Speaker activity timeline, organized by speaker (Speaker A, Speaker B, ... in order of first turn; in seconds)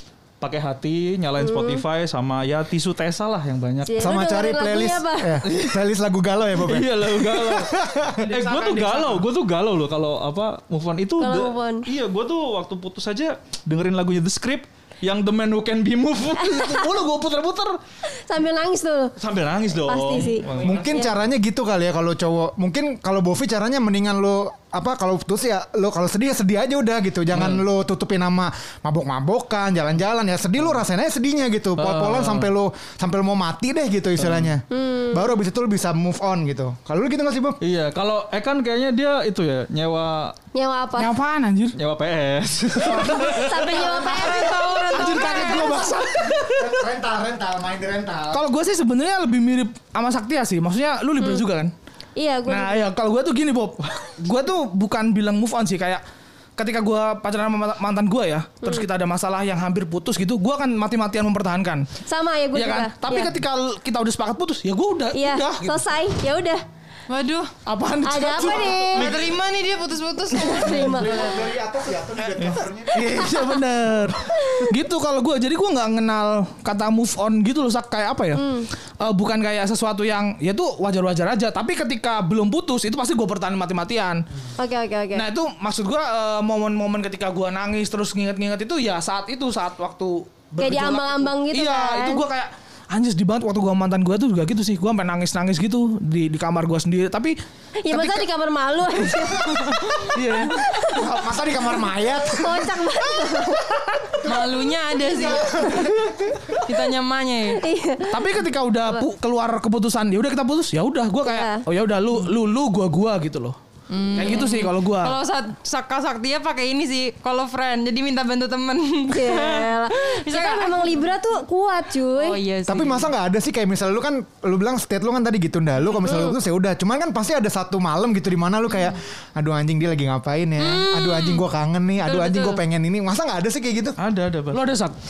Speaker A: 0.4-4.1, 5.4-5.8, 6.6-7.8, 8.3-17.8, 19.2-20.8, 27.3-27.6, 31.8-32.5, 34.2-34.5, 37.6-40.4, 41.8-43.7, 134.0-134.6
Speaker B: 1.4-1.8, 3.9-5.4, 11.2-11.8, 16.4-16.9, 18.1-19.1, 19.9-21.1, 34.7-35.3, 40.5-41.1, 42.9-45.8, 52.2-52.9, 62.1-63.3, 65.1-66.6, 68.0-69.2, 70.3-71.5, 73.3-73.5, 74.3-74.7, 78.4-78.7, 84.6-85.3, 90.6-92.2, 97.8-101.1, 102.2-103.8, 107.6-108.3, 111.2-111.6, 119.1-122.4, 126.0-126.3
Speaker C: 4.0-8.2, 20.6-37.6, 42.8-44.8, 46.4-48.4, 70.7-73.2, 100.9-103.5, 104.0-106.5, 122.7-134.0
Speaker D: 8.2-9.2, 41.0-41.8, 44.9-46.9, 48.3-51.7, 52.5-56.0, 56.6-61.9, 62.5-65.8, 67.7-69.3, 72.4-78.5, 79.0-84.2, 85.1-97.4, 97.9-98.3, 100.1-100.6, 108.1-113.6, 114.2-115.2, 134.5-135.0
Speaker E: 43.6-45.9, 67.1-67.5, 68.9-71.1, 104.2-105.8, 106.6-107.6, 113.9-121.0, 122.2-123.1, 130.6-131.4, 132.0-132.6